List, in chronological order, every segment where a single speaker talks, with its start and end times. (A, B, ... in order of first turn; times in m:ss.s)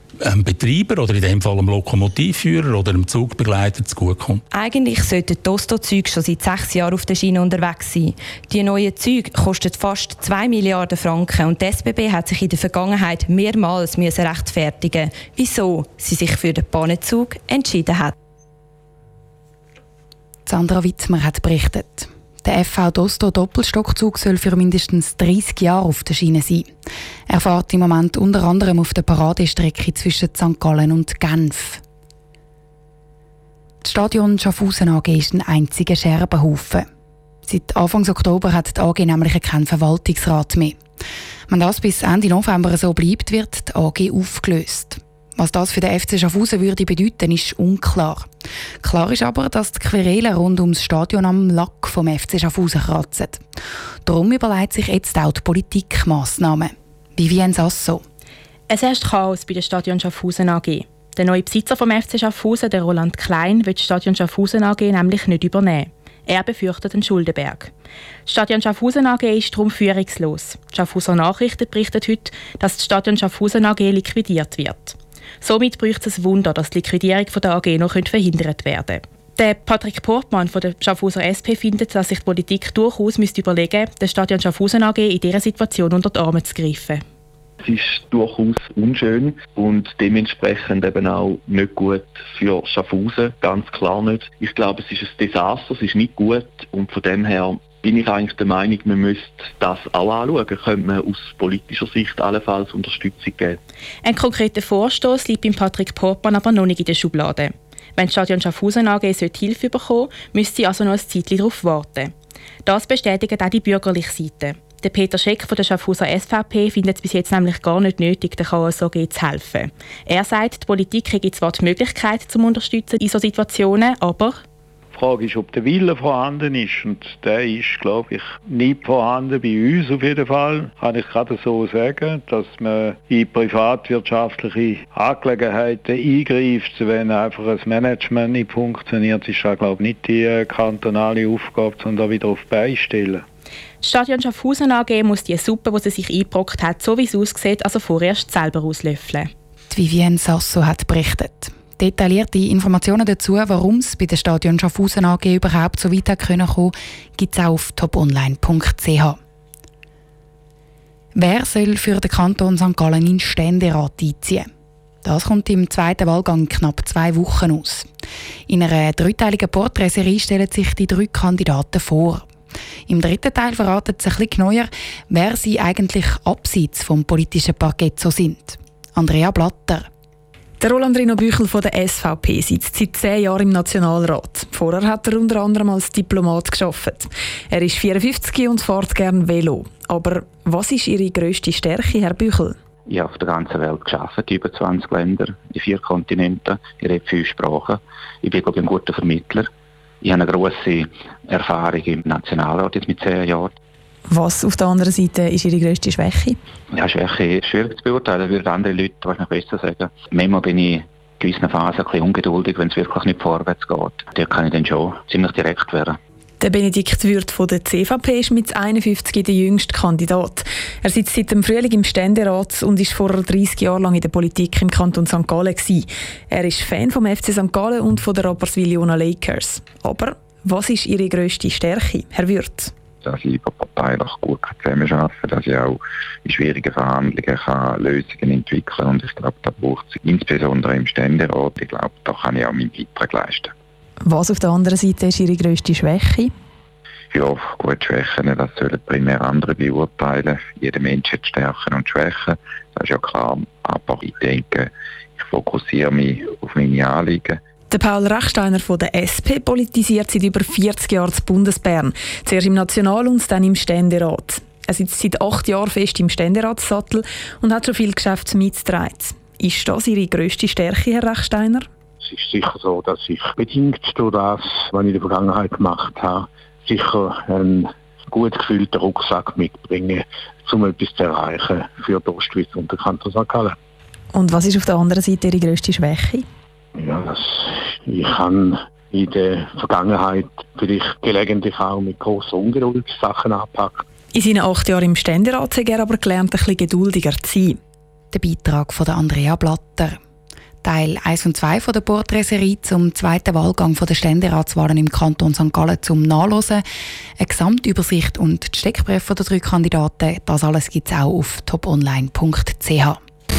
0:00.2-0:04.4 A
0:04.5-0:18.1 B
0:20.5-0:26.7 C
0:27.3-0:31.8 C
0:33.8-0:36.9 C
0:37.5-0:40.8 C
0:41.5-0:48.3 C
0:48.8-0:53.4 C
0:54.1-0:58.0 C
0:58.7-1:07.7 D
1:08.3-1:14.9 D
1:15.4-1:27.0 D
1:27.6-1:43.6 E
1:44.1-1:52.1 D
1:52.7-2:04.4 D
2:04.9-2:23.2 F
2:23.8-2:29.3 D
2:29.7-2:39.2 C
2:41.2-2:44.5 C
2:45.0-2:47.9 C
2:48.5-2:52.3 C
2:52.9-2:59.9 C
3:00.6-3:12.6 G
3:12.9-3:19.5 H
3:20.0-3:23.6 H
3:24.1-3:26.4 G
3:26.7-3:36.0 H
3:36.4-3:52.7 G
3:53.0-4:03.5 I
4:04.0-4:06.3 G
4:07.1-4:17.4 I
4:17.7-4:31.7 G
4:32.0-4:43.6 J
4:44.1-4:46.2 G
4:46.8-4:53.8 J
4:54.1-4:57.6 G
4:58.1-5:00.0 C
5:00.6-5:06.6 C
5:07.2-5:13.0 C